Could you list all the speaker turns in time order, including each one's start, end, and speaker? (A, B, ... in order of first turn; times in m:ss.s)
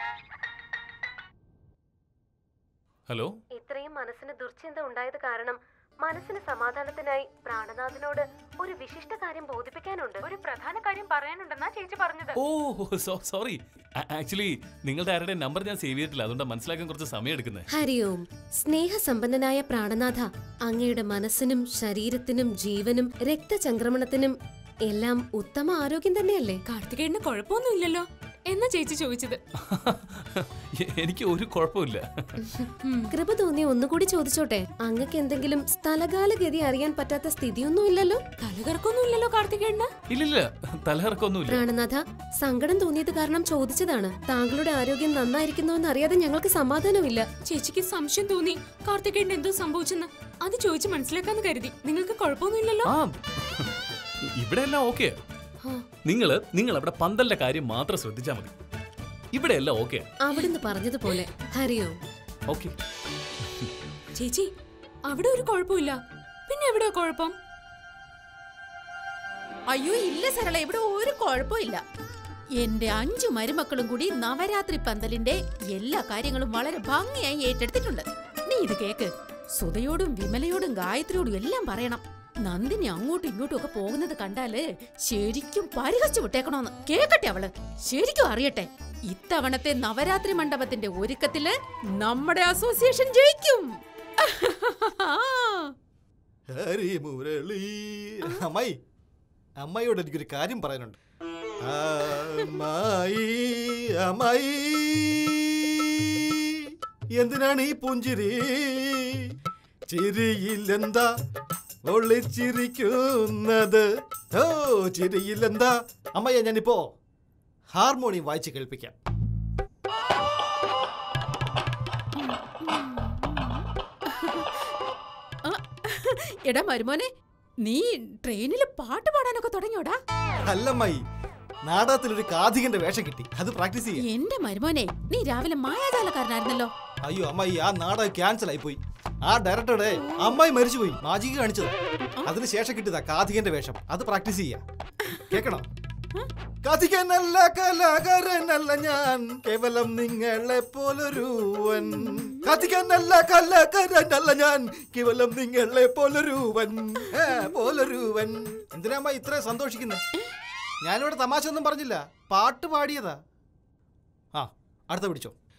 0:03.1-0:03.4 A
0:03.5-0:10.2 B
0:10.2-0:12.4 C
0:12.4-0:17.7 A
0:17.7-0:24.3 B
0:24.8-0:26.6 B
0:26.7-0:29.4 C
0:29.6-0:32.3 A
0:33.1-0:38.2 B
0:38.4-0:39.9 C
0:40.1-0:41.6 A
0:41.5-0:47.3 B
0:47.4-0:52.9 C
0:52.8-0:53.7 A
0:54.4-0:55.2 A
0:56.0-0:58.5 A
0:59.3-1:00.1 A
1:00.2-1:01.9 B
1:04.2-1:04.5 C
1:05.1-1:07.3 C
1:09.7-1:11.8 D
1:12.6-1:33.7 D
1:34.2-1:35.7 D
1:36.5-1:38.8 E
1:39.6-1:41.0 E
1:41.6-1:49.3 E
1:49.9-1:51.1 E
1:51.9-1:56.9 E
1:57.7-1:58.9 E
2:04.1-2:04.7 D
2:05.4-2:07.1 D
2:07.6-2:10.0 D
2:10.4-2:11.0 E
2:11.6-2:14.0 E
2:14.0-2:16.7 D
2:17.0-2:24.6 E
2:25.3-2:25.7 E
2:26.6-2:40.0 E
2:40.8-2:43.2 E
2:44.3-2:45.3 E